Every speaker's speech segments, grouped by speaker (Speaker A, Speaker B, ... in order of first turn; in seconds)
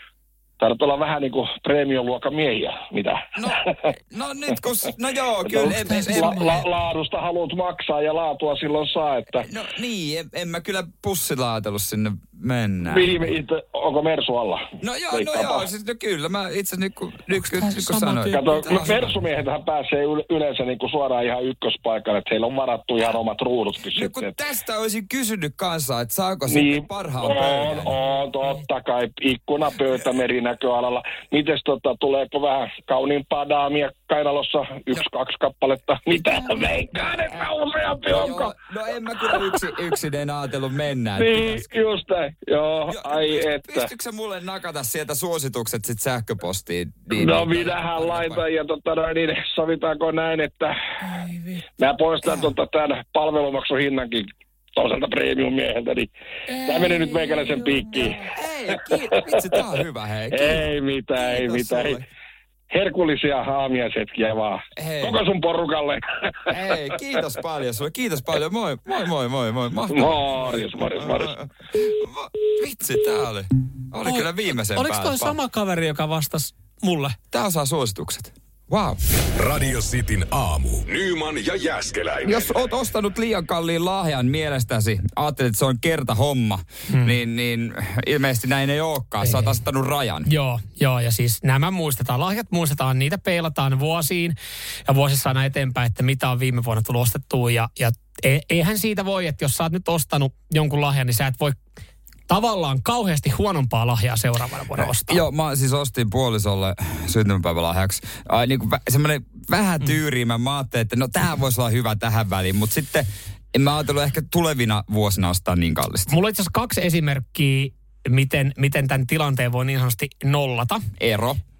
Speaker A: 0.6-3.7, 5.4-9.4, 12.8-15.6, 18.3-24.3, 26.5-38.5, 41.1-43.9, 47.1-50.8, 51.8-58.3, 60.3-62.0, 62.7-66.3, 69.9-71.3
Speaker B: 3.3-6.7, 9.3-13.2, 14.8-19.2, 23.9-28.0, 36.2-37.5, 38.0-41.7, 42.9-48.4, 56.6-62.0, 64.8-65.2, 66.5-75.4, 77.3-79.0, 82.2-90.3, 104.8-116.1, 121.0-121.4
Speaker C: 5.8-6.6, 17.4-18.4, 74.0-77.2, 89.2-89.5, 90.3-94.3, 94.9-101.6, 102.3-105.2, 116.1-120.8
Speaker D: 79.4-82.6